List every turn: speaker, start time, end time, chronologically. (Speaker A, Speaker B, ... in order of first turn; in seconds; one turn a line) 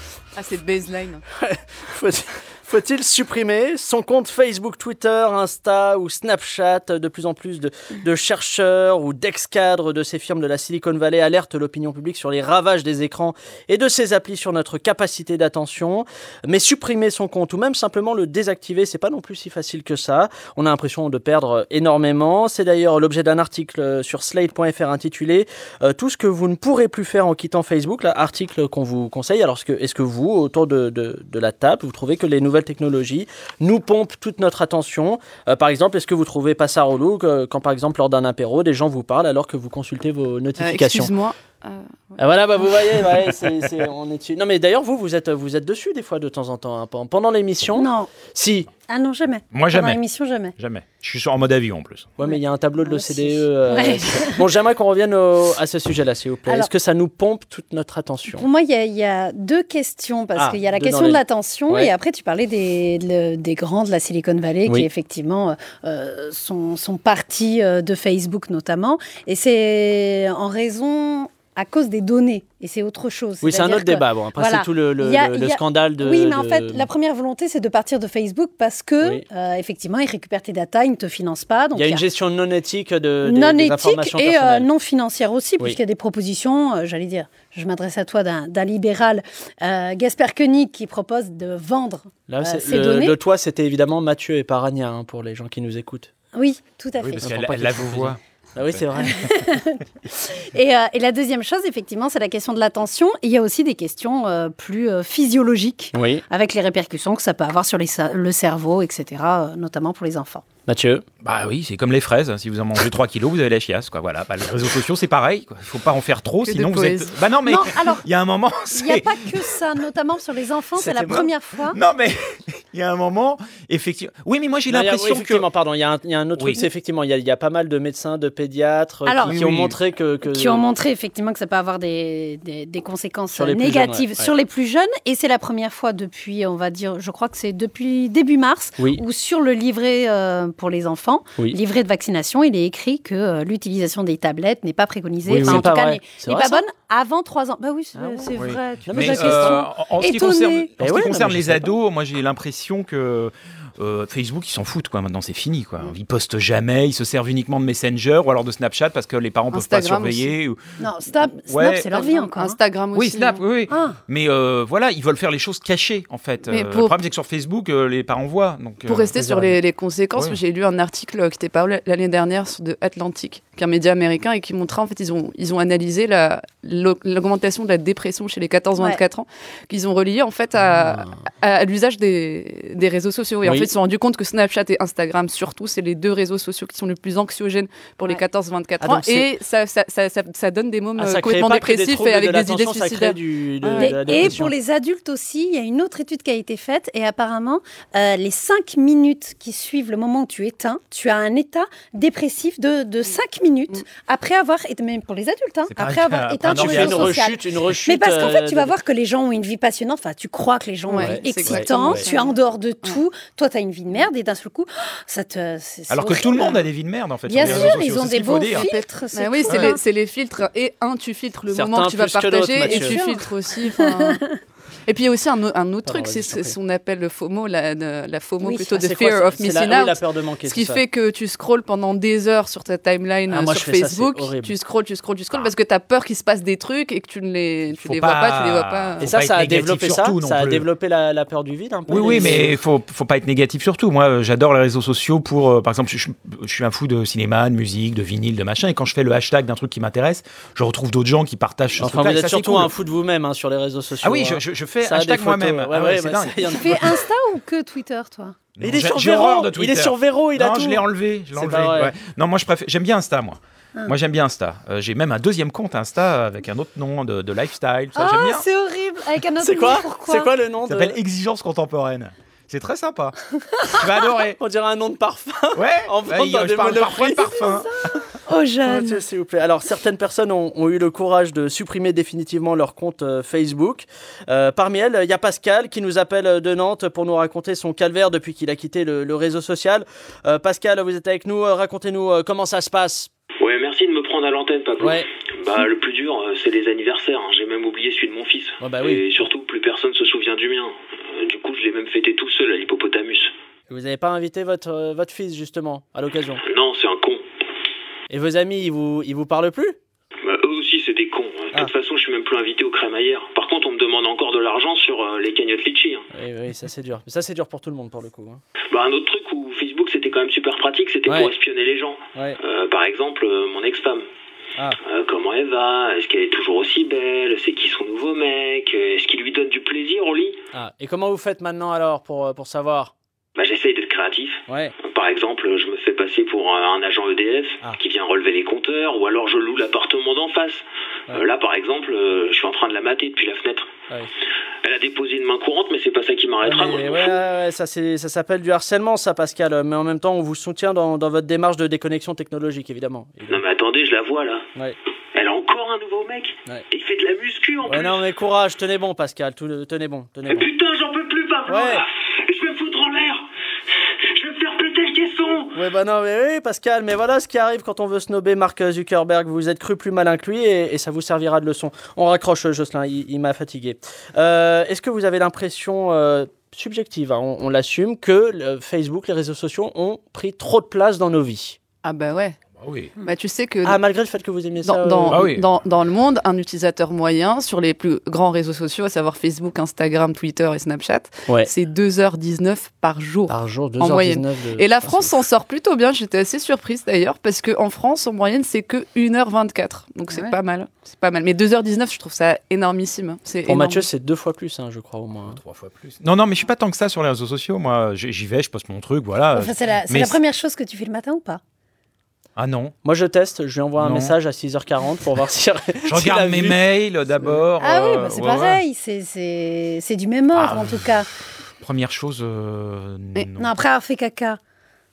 Speaker A: 0.4-1.2
Speaker B: 1.4-41.1
Speaker A: 40.6-41.9
Speaker B: 42.2-48.7
Speaker C: 47.8-48.2
Speaker C: 48.9-50.5
Speaker D: 49.5-50.0
Speaker D: 50.6-52.1
Speaker B: 52.2-58.5
Speaker C: 52.2-54.5
Speaker C: 58.3-82.0
Speaker B: 60.4-61.9
Speaker B: 73.4-76.9
Speaker B: 81.8-84.7
Speaker C: 83.2-93.2
Speaker B: 92.3-96.1
Speaker C: 96.3-97.3
Speaker D: 97.0-98.9
Speaker B: 97.2-99.3
Speaker C: 99.0-110.5
Speaker B: 105.9-106.2
Speaker B: 110.7-111.0
Speaker D: 111.2-119.6
Speaker A: 116.4-117.1
Speaker C: 117.5-118.0
Speaker C: 118.7-121.8
Speaker D: 120.8-125.5
Speaker B: 124.7-130.7
Speaker D: 126.4-126.7
Speaker C: 129.1-129.4
Speaker D: 129.3-129.8
Speaker C: 130.2-150.7
Speaker B: 133.3-134.3
Speaker B: 145.2-146.6
Speaker D: 145.3-145.7
Speaker B: 147.9-149.7
Speaker D: 148.4-160.6
Speaker B: 150.8-151.7
Speaker A: 159.5-160.3
Speaker C: 160.8-162.6
Speaker D: 161.5-162.0
Speaker A: 162.0-163.4
Speaker D: 162.9-169.2
Speaker C: 163.7-164.0
Speaker A: 166.5-167.0
Speaker A: 168.9-193.9
Speaker B: 169.2-169.5
Speaker B: 180.7-181.2
Speaker B: 183.4-183.7
Speaker B: 188.8-189.3
Speaker B: 191.0-194.5
Speaker C: 193.8-216.7
Speaker D: 205.7-207.2
Speaker B: 206.4-208.7
Speaker A: 210.9-213.0
Speaker B: 211.0-212.1
Speaker D: 215.9-218.7
Speaker C: 217.3-219.8
Speaker A: 218.5-224.2
Speaker D: 219.5-219.8
Speaker B: 221.5-223.0
Speaker C: 222.6-224.3
Speaker A: 224.9-239.1
Speaker B: 225.8-226.6
Speaker B: 228.7-230.8
Speaker B: 233.3-234.6
Speaker D: 237.8-240.7
Speaker B: 239.0-242.6
Speaker D: 241.9-252.7
Speaker A: 241.9-242.4
Speaker B: 251.8-256.9
Speaker D: 254.0-257.0
Speaker C: 256.5-258.4
Speaker D: 258.6-268.5
Speaker B: 258.6-262.0
Speaker C: 267.9-270.3
Speaker B: 269.4-271.0
Speaker D: 270.7-274.4
Speaker B: 274.4-277.4
Speaker D: 275.6-277.7
Speaker C: 277.4-279.0
Speaker B: 278.7-293.1
Speaker E: 293.4-303.3
Speaker B: 294.8-295.7
Speaker B: 298.6-299.1
Speaker B: 303.7-306.4
Speaker E: 306.4-307.2
Speaker B: 308.1-309.8
Speaker E: 310.2-316.1
Speaker B: 316.1-318.4
Speaker E: 318.7-324.1
Speaker B: 321.1-321.3
Speaker E: 324.9-330.4
Speaker B: 330.5-332.9
Speaker E: 333.4-343.7
Speaker B: 334.5-334.7
Speaker E: 344.6-347.2
Speaker B: 346.4-353.4
Speaker E: 353.3-354.5
Speaker E: 355.1-358.1
Speaker B: 357.7-360.5
Speaker E: 360.3-363.2
Speaker B: 361.5-361.9
Speaker E: 364.1-365.6
Speaker B: 365.5-381.6
Speaker A: 381.8-382.4
Speaker D: 382.6-382.9
Speaker A: 383.0-383.8
Speaker B: 383.6-385.3
Speaker A: 384.6-403.9
Speaker D: 385.1-385.4
Speaker B: 393.3-395.2
Speaker B: 403.5-405.4
Speaker D: 405.3-410.2
Speaker C: 409.3-411.4
Speaker D: 412.4-412.7
Speaker B: 412.8-416.6
Speaker D: 413.8-414.2
Speaker D: 415.9-418.6
Speaker C: 417.6-421.1
Speaker D: 420.3-420.9
Speaker D: 421.6-423.6
Speaker C: 423.4-424.4